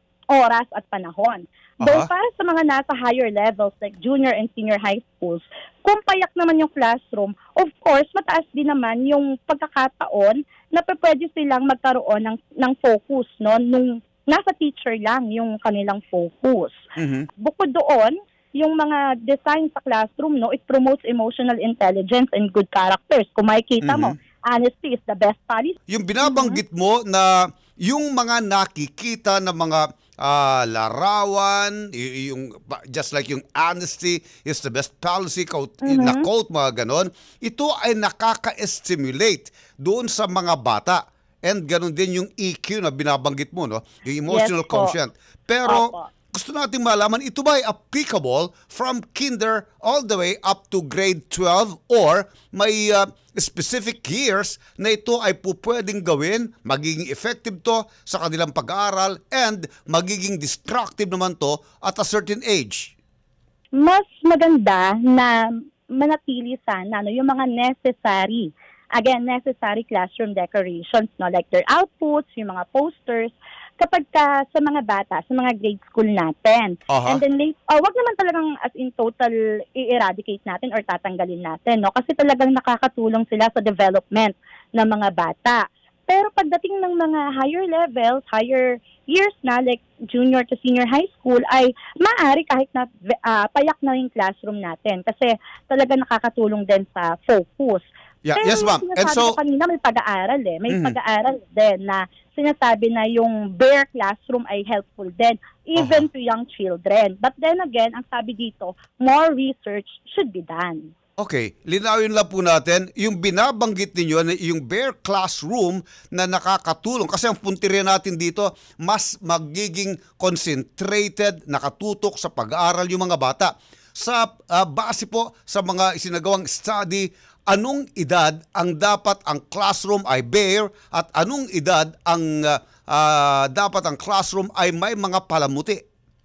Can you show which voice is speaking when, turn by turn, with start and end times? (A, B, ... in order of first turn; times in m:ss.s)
0:00.3-0:16.8 A
0:01.8-0:02.1 B
0:17.0-0:17.3 B
0:17.4-0:26.6 A
0:23.8-0:24.1 B
0:25.9-1:02.9 B
0:35.8-0:36.3 A
0:44.3-0:45.0 A
0:45.7-0:46.1 A
1:03.8-1:05.3 A
1:06.0-1:50.9 A
1:16.9-1:17.2 B
1:38.2-1:39.4 B
1:40.7-1:41.0 B
1:45.8-1:46.1 B
1:51.2-2:15.8 B